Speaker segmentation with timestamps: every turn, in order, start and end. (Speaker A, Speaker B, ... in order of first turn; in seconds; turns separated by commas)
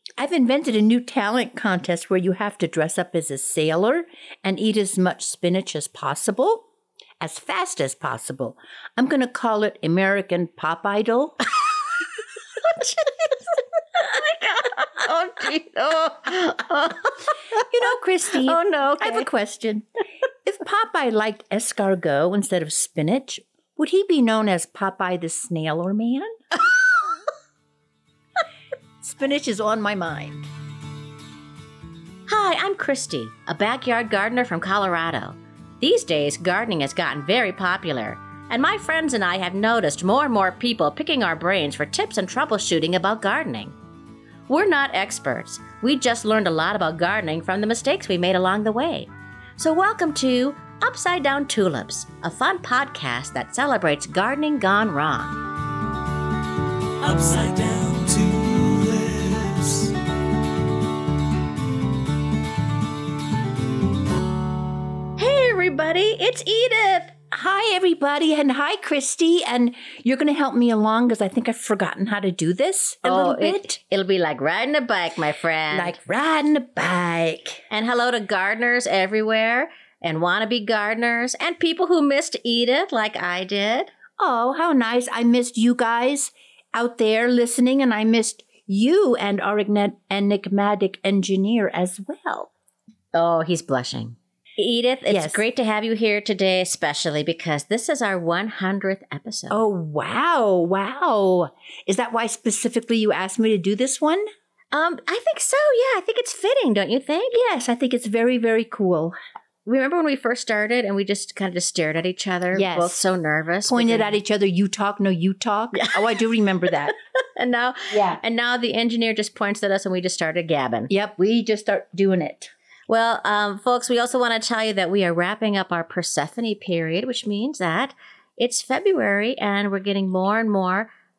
Speaker A: 0.2-6.7, Speaker A: 7.2-11.4, Speaker B: 12.6-13.3, Speaker B: 13.9-17.6, Speaker A: 17.7-19.9, Speaker B: 18.4-19.3, Speaker A: 20.4-26.4, Speaker A: 29.0-30.4, Speaker B: 32.3-43.7, Speaker B: 44.5-55.4, Speaker C: 57.0-59.9, Speaker B: 65.2-67.1, Speaker A: 67.3-73.8, Speaker B: 73.0-76.0, Speaker A: 75.7-77.6, Speaker B: 77.7-83.9, Speaker A: 84.2-92.5, Speaker B: 93.1-99.5, Speaker A: 95.1-95.4, Speaker A: 99.5-104.3, Speaker B: 104.7-107.4, Speaker A: 107.3-109.2, Speaker B: 109.6-114.1, Speaker A: 112.5-113.0, Speaker A: 113.7-116.9, Speaker B: 115.8-116.2, Speaker B: 116.9-120.9, Speaker A: 117.9-118.2, Speaker A: 120.9-122.5, Speaker B: 122.9-130.9